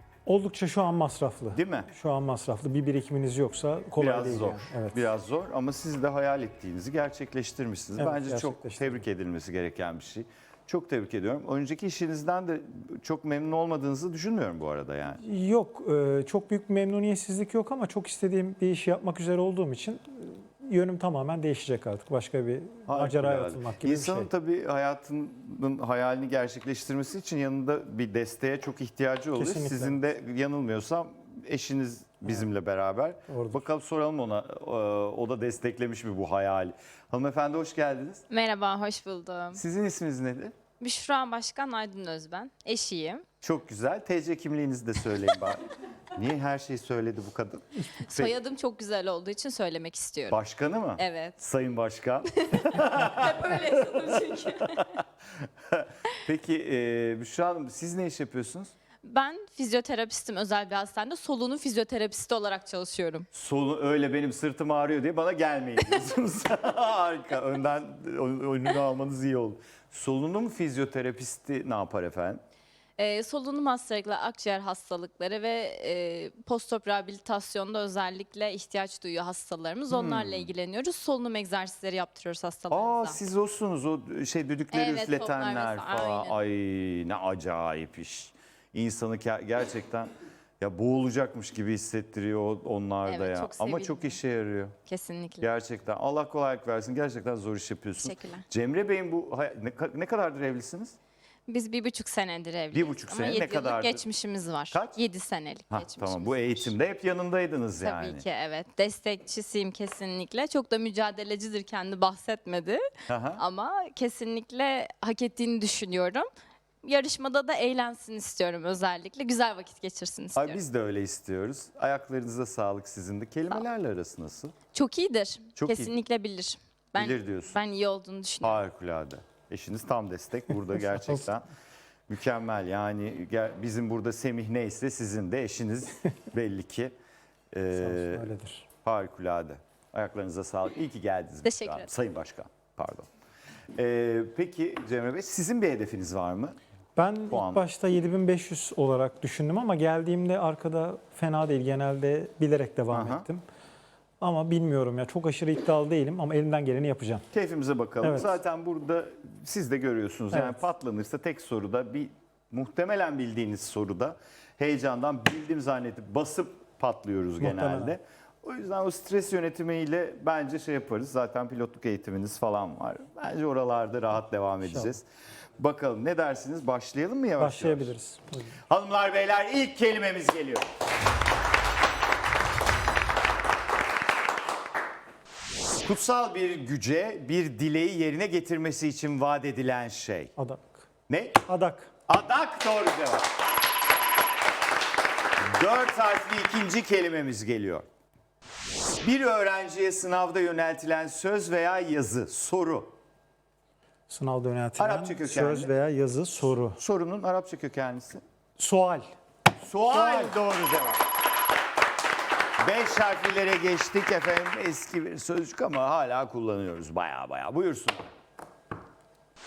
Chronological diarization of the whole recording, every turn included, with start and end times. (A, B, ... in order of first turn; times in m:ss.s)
0:00.2-0:05.0 A
0:01.5-0:01.9 B
0:04.0-0:15.2 B
0:08.0-0:09.0 A
0:15.2-0:24.3 A
0:22.9-0:38.2 B
0:29.4-0:30.0 A
0:33.3-0:33.6 A
0:38.3-0:39.6 C
0:39.5-0:40.5 B
0:40.8-0:43.2 C
0:43.4-0:48.3 B
0:48.0-0:50.4 C
0:50.3-0:55.0 B
0:51.0-0:51.4 C
0:52.4-0:54.9 C
0:55.7-0:58.7 B
0:59.0-1:03.2 C
1:03.3-1:12.4 B
1:13.0-1:23.2 C
1:19.9-1:20.5 B
1:22.7-1:34.7 B
1:24.7-1:26.4 C
1:33.0-1:34.2 C
1:34.8-1:35.5 C
1:35.4-1:41.0 B
1:38.0-1:38.4 C
1:41.5-1:46.7 C
1:42.7-1:44.0 B
1:44.7-1:45.0 B
1:45.7-1:48.2 B
1:47.8-1:52.8 C
1:53.1-1:53.4 B
1:53.4-1:56.3 C
1:56.8-2:00.6 C
2:00.4-2:04.5 B
2:04.7-2:08.6 C
2:05.6-2:05.9 B
2:07.0-2:07.6 B
2:08.4-2:11.4 B
2:12.1-2:16.9 B
2:17.5-2:18.2 B
2:17.7-2:18.6 A
2:18.8-2:23.1 B
2:21.4-2:21.9 C
2:23.8-2:26.6 B
2:27.0-2:33.4 A
2:27.3-2:27.6 B
2:32.9-2:33.2 B
2:34.2-2:37.2 A
2:37.3-2:55.0 B
2:38.0-2:38.4 A
2:40.3-2:40.6 A
2:47.4-2:47.9 A
2:54.6-2:54.9 A
2:55.6-2:57.9 B
2:57.4-2:58.6 A
2:58.7-3:00.6 B
3:05.8-3:10.3 B
3:10.4-3:10.9 A
3:11.1-3:11.4 B
3:11.4-3:11.9 A
3:12.1-3:13.3 B
3:15.4-3:17.8 B
3:19.0-3:22.9 B
3:24.1-3:26.8 A
3:24.8-3:25.7 B
3:26.7-3:28.2 B
3:28.6-3:29.1 A
3:29.6-3:31.0 B
3:29.9-3:30.3 A
3:32.6-3:38.1 B